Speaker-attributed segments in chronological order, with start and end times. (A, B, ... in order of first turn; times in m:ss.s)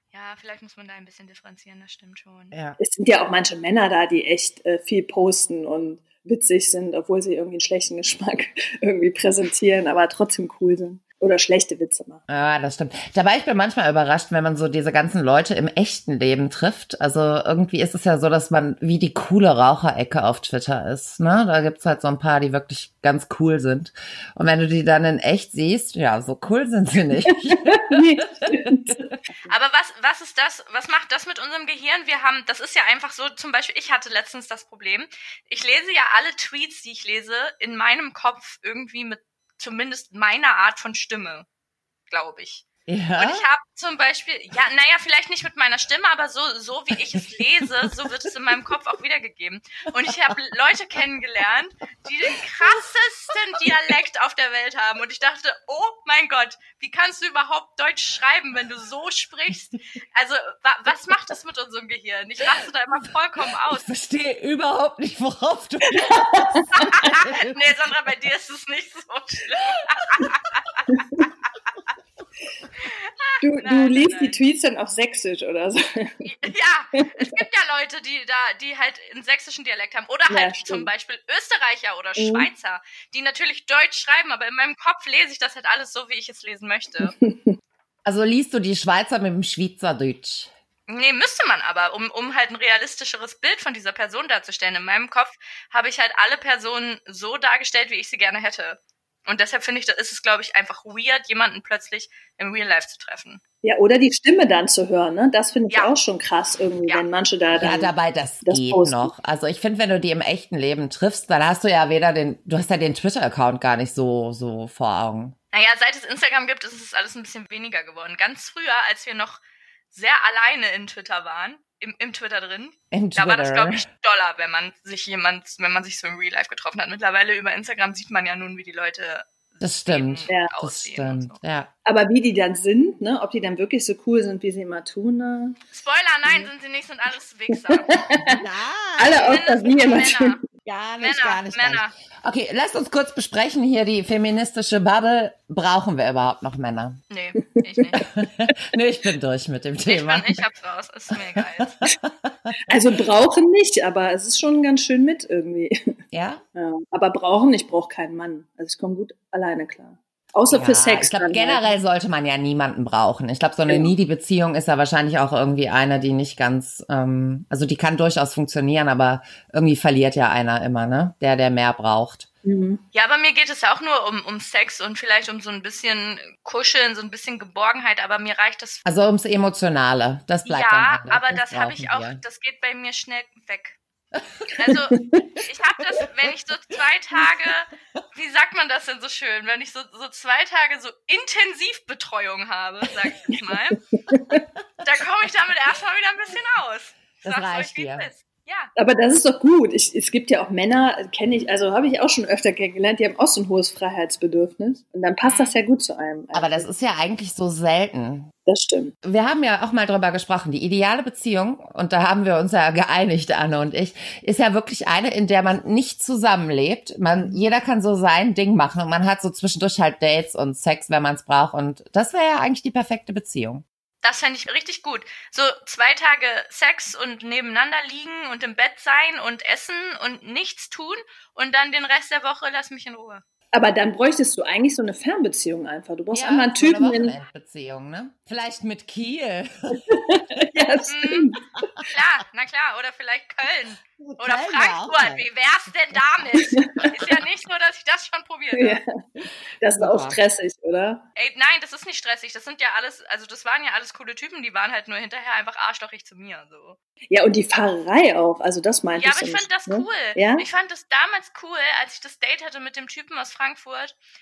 0:00.1-0:02.6 A
0:02.5-0:02.8 B
0:02.8-0:12.2 C
0:12.3-0:29.1 B
0:27.3-0:29.5 C
0:29.5-0:41.5 A
0:42.1-0:42.7 A
0:42.9-0:43.5 B
0:43.2-1:03.9 A
0:52.3-0:52.7 B
1:03.7-1:07.7 B
1:05.9-1:07.1 C
1:06.8-1:11.0 A
1:10.9-1:11.3 C
1:12.8-1:14.4 A
1:13.4-1:17.4 C
1:16.2-1:27.1 A
1:20.3-1:20.9 C
1:22.2-1:22.5 C
1:27.0-1:27.6 C
1:28.0-1:30.5 B
1:30.9-1:43.4 A
1:43.6-1:47.9 C
1:47.5-1:55.4 B
1:48.4-1:49.1 C
1:55.5-1:59.4 A
1:59.9-2:11.4 A
2:02.9-2:03.9 B
2:09.6-2:11.7 B
2:11.9-2:15.6 C
2:15.7-2:18.0 A
2:17.5-2:18.4 C
2:18.2-2:19.4 B
2:19.0-2:20.4 C
2:19.1-2:20.4 A
2:20.6-2:27.0 B
2:21.0-2:21.9 A
2:27.1-2:28.1 A
2:28.0-2:30.4 B
2:29.9-2:31.8 A
2:31.1-2:32.8 B
2:32.7-2:35.9 C
2:36.1-2:36.4 B
2:36.6-2:41.7 C
2:40.5-2:52.3 B
2:43.7-2:43.9 C
2:52.4-2:52.8 C
2:52.9-2:58.8 A
2:58.8-3:02.2 B
3:00.4-3:03.8 A
3:04.6-3:13.8 A
3:04.9-3:05.2 C
3:06.0-3:06.3 B
3:13.9-3:14.4 C
3:14.8-3:18.7 A
3:17.2-3:18.1 B
3:18.8-3:26.7 C
3:25.3-3:25.6 A
3:26.3-3:28.3 B
3:28.5-3:28.9 C
3:29.0-3:43.6 B
3:44.0-3:53.2 A
3:53.5-3:57.2 C
3:56.1-3:59.8 B
3:59.9-4:01.4 C
4:00.9-4:01.3 A
4:01.9-4:08.8 A
4:04.0-4:05.3 B
4:06.4-4:06.9 C
4:08.5-4:08.8 C
4:09.6-4:11.0 C
4:09.7-4:10.2 B
4:11.2-4:16.8 A
4:17.1-4:20.5 C
4:19.0-4:24.0 A